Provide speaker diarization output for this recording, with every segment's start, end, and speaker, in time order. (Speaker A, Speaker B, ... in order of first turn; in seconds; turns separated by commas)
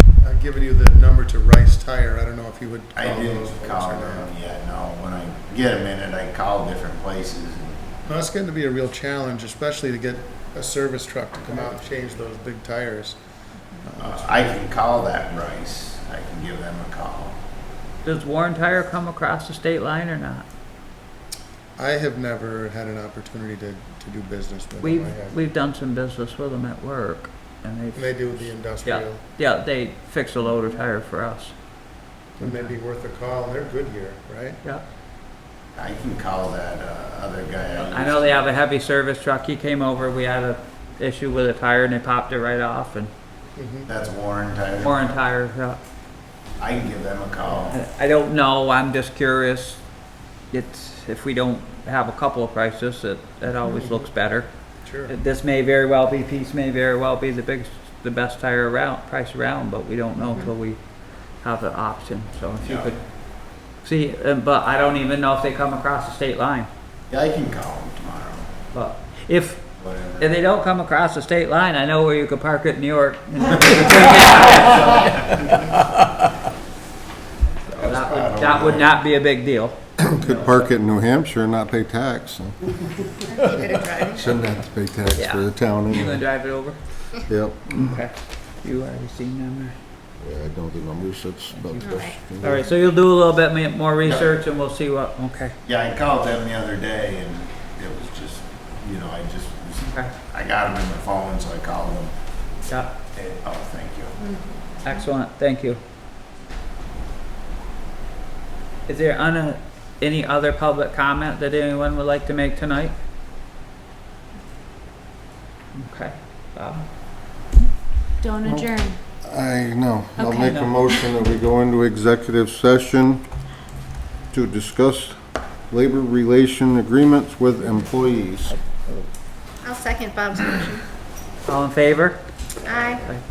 Speaker A: 0.2-4.3, Speaker B: 2.9-7.8, Speaker A: 8.1-13.2, Speaker A: 13.8-14.6, Speaker B: 14.0-17.4, Speaker C: 18.0-20.5, Speaker A: 21.8-25.4, Speaker C: 24.8-31.5, Speaker A: 27.9-29.2, Speaker A: 32.4-34.6, Speaker C: 32.4-32.7, Speaker B: 35.7-38.5, Speaker C: 37.8-43.1, Speaker A: 43.5-43.9, Speaker B: 43.9-45.0, Speaker C: 44.8-45.8, Speaker B: 46.6-47.8, Speaker C: 47.7-49.8, Speaker C: 50.5-54.5, Speaker A: 53.7-54.1, Speaker A: 54.8-55.2, Speaker C: 55.1-60.8, Speaker C: 61.4-63.0, Speaker B: 62.6-62.9, Speaker C: 63.8-66.7, Speaker B: 67.1-68.5, Speaker C: 68.7-69.7, Speaker B: 69.8-70.3, Speaker C: 70.2-75.3, Speaker B: 73.5-75.8, Speaker C: 77.7-80.7, Speaker B: 77.7-78.9, Speaker D: 80.0-82.6, Speaker E: 83.3-84.2, Speaker D: 83.5-86.2, Speaker C: 85.2-86.8, Speaker D: 87.3-88.0, Speaker C: 87.7-89.7, Speaker D: 90.2-92.7, Speaker C: 91.5-95.5, Speaker E: 91.8-92.1, Speaker B: 94.0-94.3, Speaker B: 95.6-102.1, Speaker C: 102.7-102.9, Speaker B: 103.1-104.2, Speaker E: 104.2-104.6, Speaker C: 104.8-105.8, Speaker C: 108.9-112.9, Speaker C: 115.7-116.8, Speaker E: 118.2-119.0, Speaker D: 118.4-123.2, Speaker C: 120.2-120.8, Speaker D: 124.3-128.6, Speaker C: 128.5-129.1, Speaker E: 129.6-130.8, Speaker C: 131.4-133.2, Speaker E: 132.6-133.0